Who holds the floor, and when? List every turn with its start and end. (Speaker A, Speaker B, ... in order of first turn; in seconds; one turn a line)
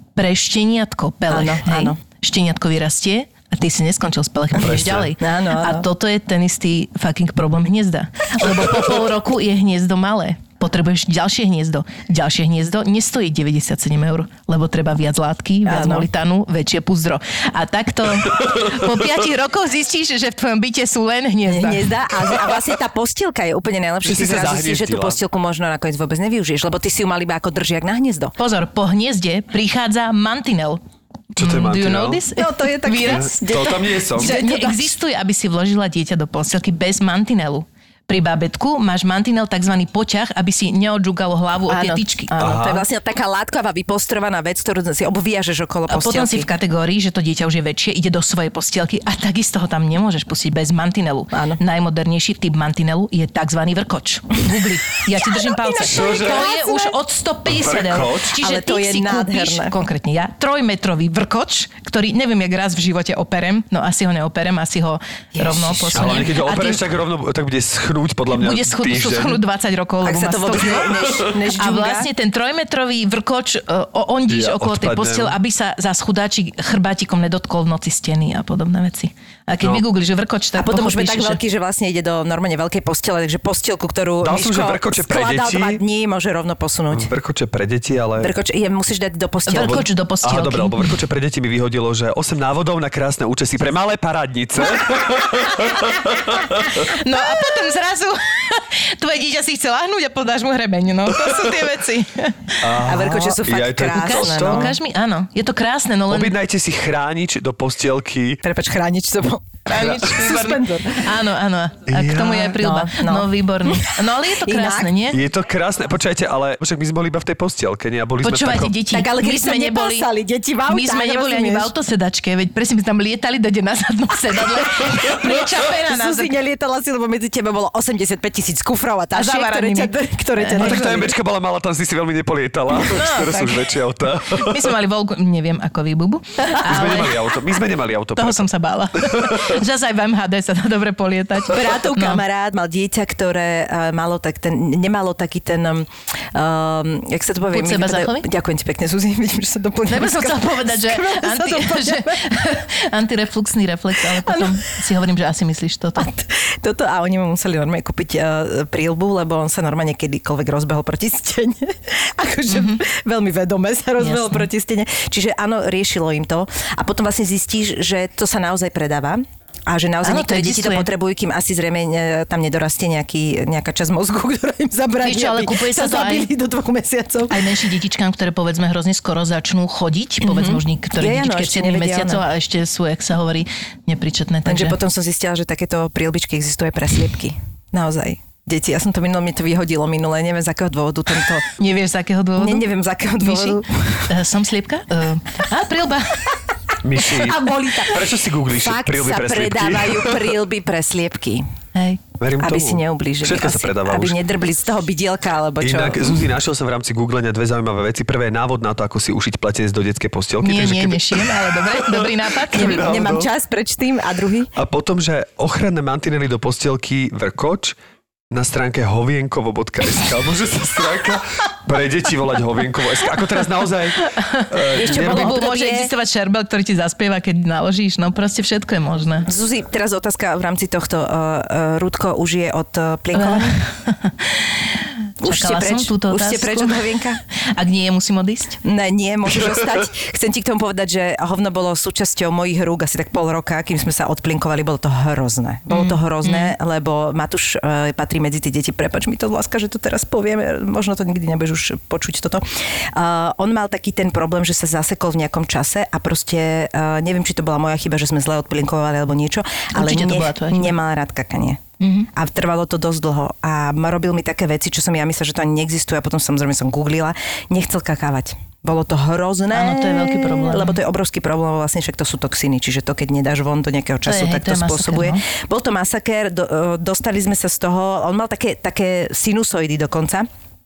Speaker A: 0.1-21.9
Speaker B: 1.3-2.0
Speaker C: 4.6-5.1
Speaker B: 5.2-5.8
Speaker B: 15.7-16.1
Speaker B: 21.5-28.3
Speaker C: 24.0-25.2
Speaker A: 28.4-30.8
Speaker A: 31.3-33.3
Speaker C: 31.4-32.2
Speaker B: 32.4-34.9
Speaker C: 33.0-34.4
Speaker A: 34.2-42.3
Speaker B: 41.7-46.5
Speaker C: 42.4-42.8
Speaker A: 45.9-66.8
Speaker B: 51.3-51.6
Speaker B: 55.4-57.0
Speaker C: 55.8-56.5
Speaker C: 57.5-58.3
Speaker B: 58.3-59.7
Speaker B: 65.3-66.3
Speaker C: 65.9-69.4
Speaker A: 68.3-81.4
Speaker B: 70.0-72.1
Speaker C: 74.3-75.3
Speaker B: 80.6-87.1
Speaker C: 84.2-85.8
Speaker C: 86.9-88.3
Speaker B: 88.2-89.8
Speaker A: 89.5-90.9
Speaker C: 89.5-96.9
Speaker A: 96.5-102.6
Speaker C: 102.6-104.7
Speaker B: 102.8-104.8
Speaker A: 103.9-106.3
Speaker C: 106.1-108.4
Speaker B: 108.4-111.0
Speaker A: 109.7-115.2
Speaker C: 111.9-112.5
Speaker B: 112.5-114.9
Speaker C: 115.1-118.8
Speaker A: 118.2-120.1
Speaker B: 118.9-121.7
Speaker A: 120.7-126.3
Speaker B: 125.1-131.1
Speaker A: 129.1-130.8
Speaker C: 130.6-134.7
Speaker A: 132.8-137.3
Speaker C: 136.6-139.6
Speaker B: 136.6-136.9
Speaker A: 138.2-142.2
Speaker B: 141.5-152.5
Speaker A: 147.5-148.2
Speaker A: 149.9-156.1
Speaker B: 154.1-154.6
Speaker B: 155.9-177.6
Speaker A: 162.5-162.8
Speaker A: 164.0-164.4
Speaker A: 170.0-170.9
Speaker A: 175.0-176.3
Speaker A: 177.3-184.8
Speaker B: 180.2-182.2
Speaker B: 184.4-191.4
Speaker A: 191.6-192.7
Speaker B: 192.4-194.1
Speaker A: 193.2-196.4
Speaker C: 196.8-200.3
Speaker B: 197.0-201.4
Speaker A: 201.7-202.0
Speaker C: 202.2-204.2
Speaker B: 202.4-206.3
Speaker C: 205.6-213.3
Speaker A: 210.4-212.9
Speaker B: 212.5-214.5
Speaker C: 214.6-217.7
Speaker C: 218.3-225.4
Speaker A: 224.0-229.3
Speaker B: 224.8-225.9
Speaker B: 229.3-233.6
Speaker A: 233.1-236.9
Speaker B: 235.2-237.2
Speaker A: 237.6-238.6
Speaker B: 238.6-261.6
Speaker A: 245.7-246.5
Speaker A: 259.7-260.7
Speaker A: 261.8-262.1
Speaker B: 262.1-280.3
Speaker A: 269.5-270.8
Speaker A: 274.1-275.2